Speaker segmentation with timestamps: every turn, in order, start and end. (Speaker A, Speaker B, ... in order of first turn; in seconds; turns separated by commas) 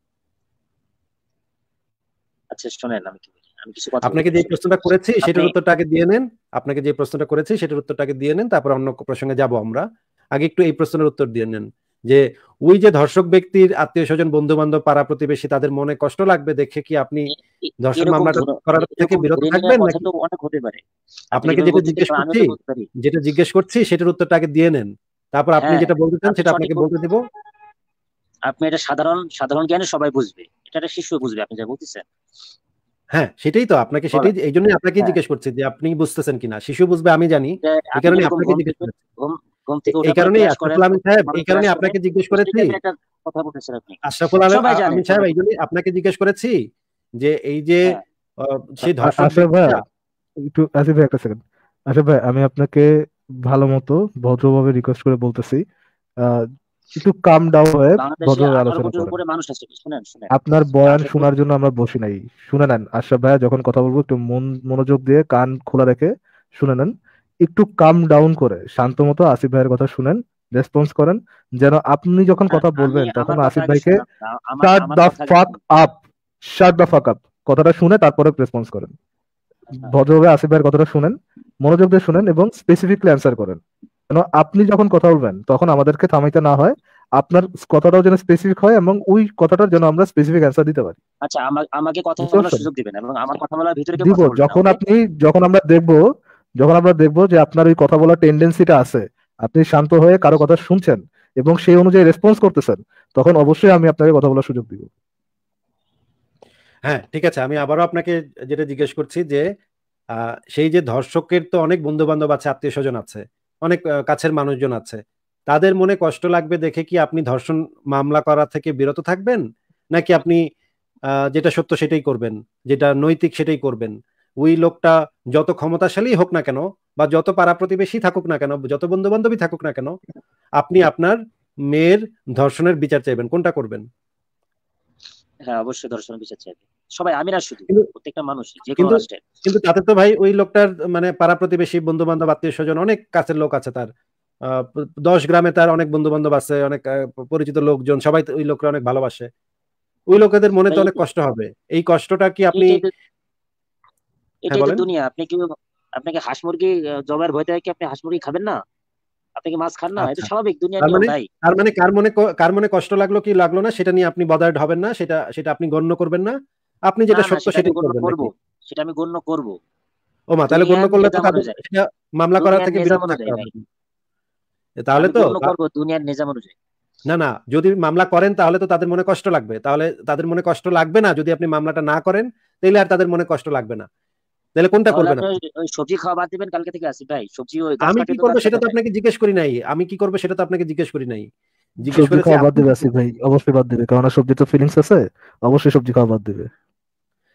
Speaker A: 2.5-4.7, Speaker B: 4.0-20.0, Speaker A: 5.2-5.5, Speaker A: 18.0-20.8, Speaker B: 21.3-27.2, Speaker A: 21.4-22.9, Speaker A: 25.6-26.9, Speaker A: 28.5-32.0, Speaker B: 33.1-38.9, Speaker A: 37.6-45.3, Speaker B: 39.9-42.8, Speaker B: 44.0-46.5, Speaker B: 47.2-49.8, Speaker C: 49.1-49.8, Speaker C: 50.5-52.9, Speaker C: 53.4-55.6, Speaker C: 57.0-59.2, Speaker A: 58.0-60.3, Speaker C: 60.3-66.9, Speaker A: 60.8-61.3, Speaker C: 67.5-74.0, Speaker A: 72.5-75.5, Speaker C: 74.6-76.0, Speaker C: 76.5-78.9, Speaker C: 79.8-83.6, Speaker C: 84.1-91.0, Speaker A: 91.2-94.8, Speaker C: 92.2-92.6, Speaker C: 94.0-96.0, Speaker C: 96.6-104.9, Speaker B: 106.8-109.4, Speaker B: 110.1-119.4, Speaker B: 119.9-120.4, Speaker B: 121.3-129.9, Speaker B: 130.6-131.2, Speaker B: 131.7-133.8, Speaker A: 135.5-139.3, Speaker B: 138.8-143.9, Speaker B: 144.4-149.3, Speaker B: 150.1-152.8, Speaker A: 150.7-151.0, Speaker A: 152.6-152.9, Speaker A: 154.5-155.4, Speaker B: 154.5-154.8, Speaker A: 156.0-158.6, Speaker A: 159.4-161.3, Speaker B: 160.0-160.3, Speaker B: 160.8-166.3, Speaker B: 166.9-168.3, Speaker A: 167.1-169.5, Speaker B: 170.3-173.6, Speaker A: 170.5-171.6, Speaker A: 172.4-173.5, Speaker B: 174.8-175.5, Speaker A: 175.0-176.5, Speaker B: 177.1-183.8, Speaker B: 184.6-185.3, Speaker A: 184.9-188.7, Speaker B: 187.8-191.3, Speaker B: 191.8-192.8, Speaker C: 191.9-196.5